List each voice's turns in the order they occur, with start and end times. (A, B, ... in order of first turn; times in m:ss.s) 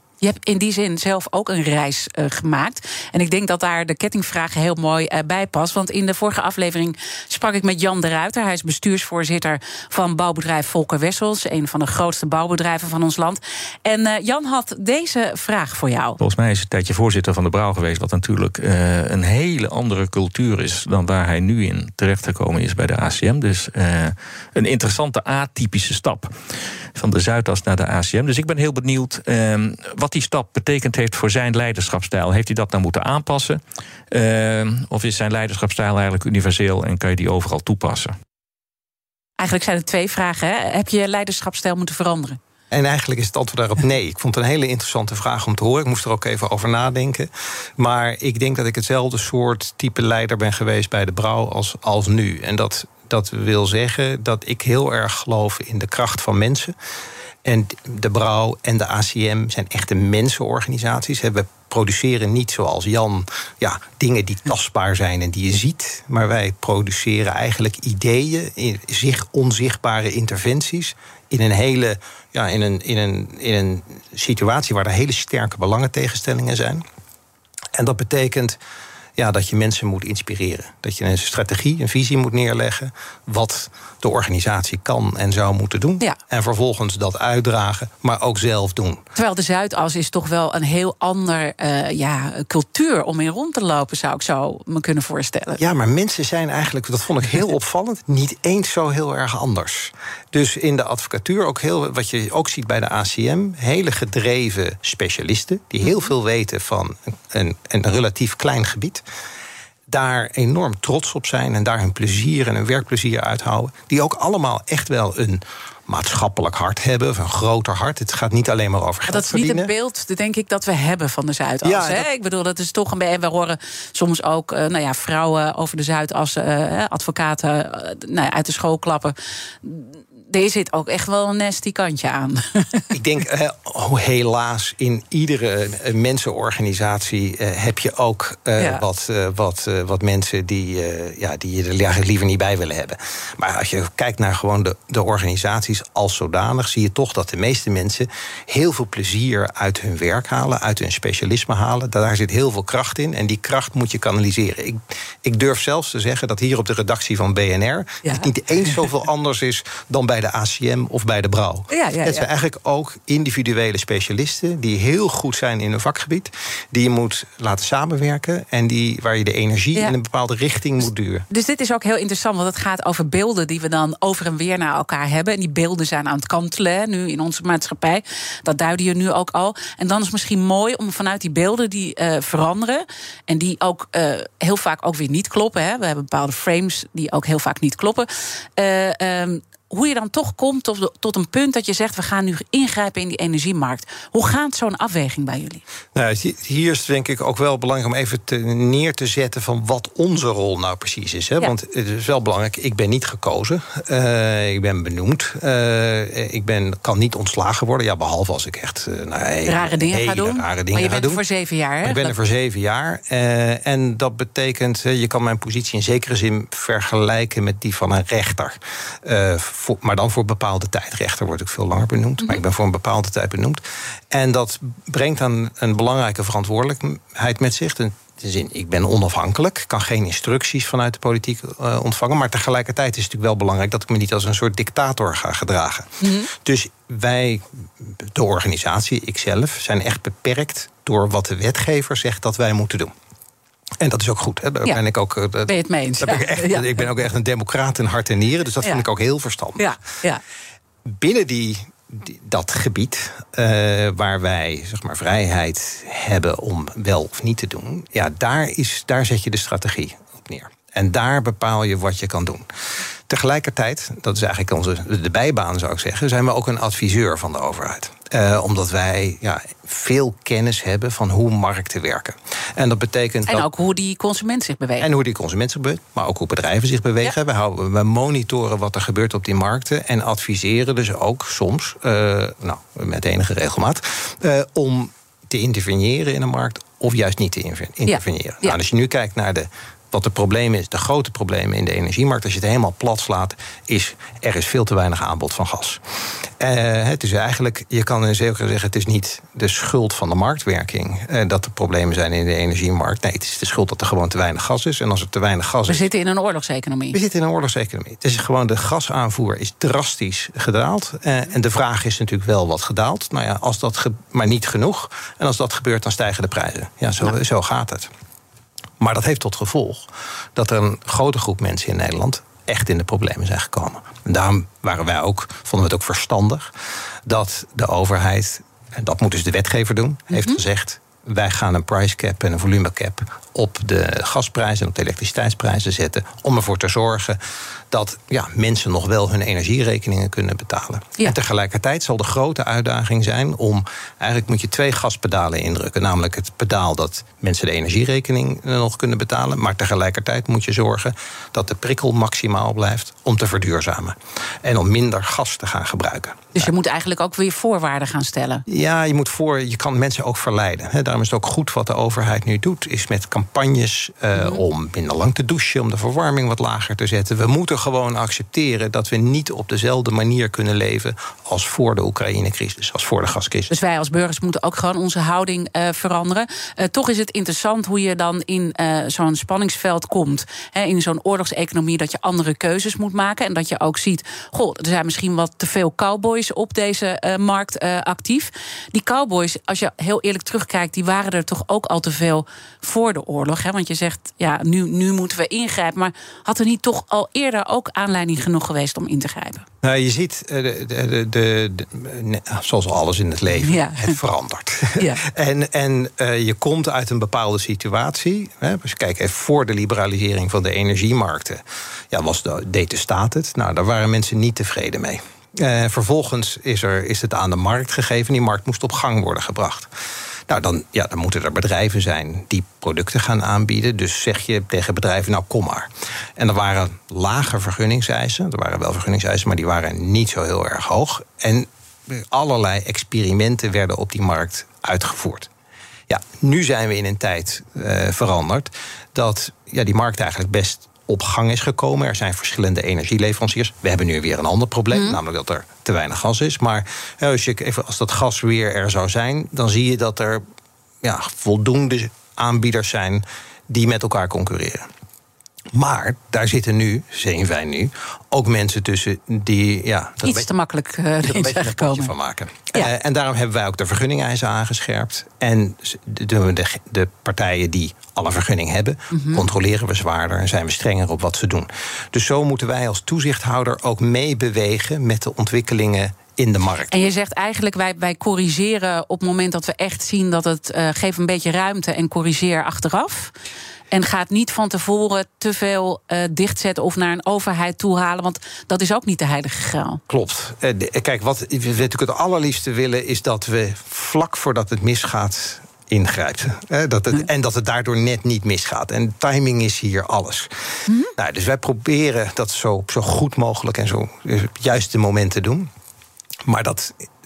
0:00.2-0:16.2 A
0:16.2-0:26.3 B
0:26.9-0:38.1 B
0:39.4-0:42.4 A
0:42.7-0:56.8 C
0:57.4-1:16.8 C
1:17.7-1:18.6 C
1:19.2-1:29.0 C
1:29.1-1:35.6 A
1:35.6-1:49.0 C
1:49.9-1:59.7 C
1:59.1-2:12.8 A
2:01.6-2:02.0 C
2:12.9-2:51.2 C
2:18.6-2:18.8 A
2:38.0-2:38.3 A
2:41.7-2:42.3 A
2:51.3-3:15.6 A
3:15.9-3:31.2 C
3:29.4-3:32.1 A
3:31.8-4:02.9 C
3:56.0-3:56.3 A
4:03.8-4:09.7 C
4:05.4-4:06.9 A
4:09.6-4:10.2 A
4:10.9-4:22.4 C
4:23.1-4:33.5 C
4:33.3-4:34.9 A
4:34.8-4:55.8 C
4:47.9-4:48.5 A
4:56.4-5:05.9 C
5:05.7-5:07.0 A
5:06.9-5:17.9 C
5:18.8-5:26.5 C
5:27.0-5:37.2 C
5:30.1-5:30.4 A
5:37.7-5:56.5 C
5:56.3-5:58.4 A
5:58.5-6:13.5 C
6:04.1-6:04.4 A
6:13.5-6:39.4 A
6:39.6-6:59.7 C
6:43.4-6:44.0 A
7:00.3-7:15.3 C
7:15.9-7:30.2 C
7:24.7-7:25.0 A
7:30.8-7:34.7 C
7:35.5-7:40.3 C
7:40.0-7:41.9 A
7:41.0-7:56.9 C
7:48.9-7:49.2 A
7:56.7-8:03.1 A
8:03.7-8:09.8 A
8:09.9-8:20.3 C
8:20.7-8:20.9 A
8:20.9-8:25.5 C
8:26.2-8:26.8 C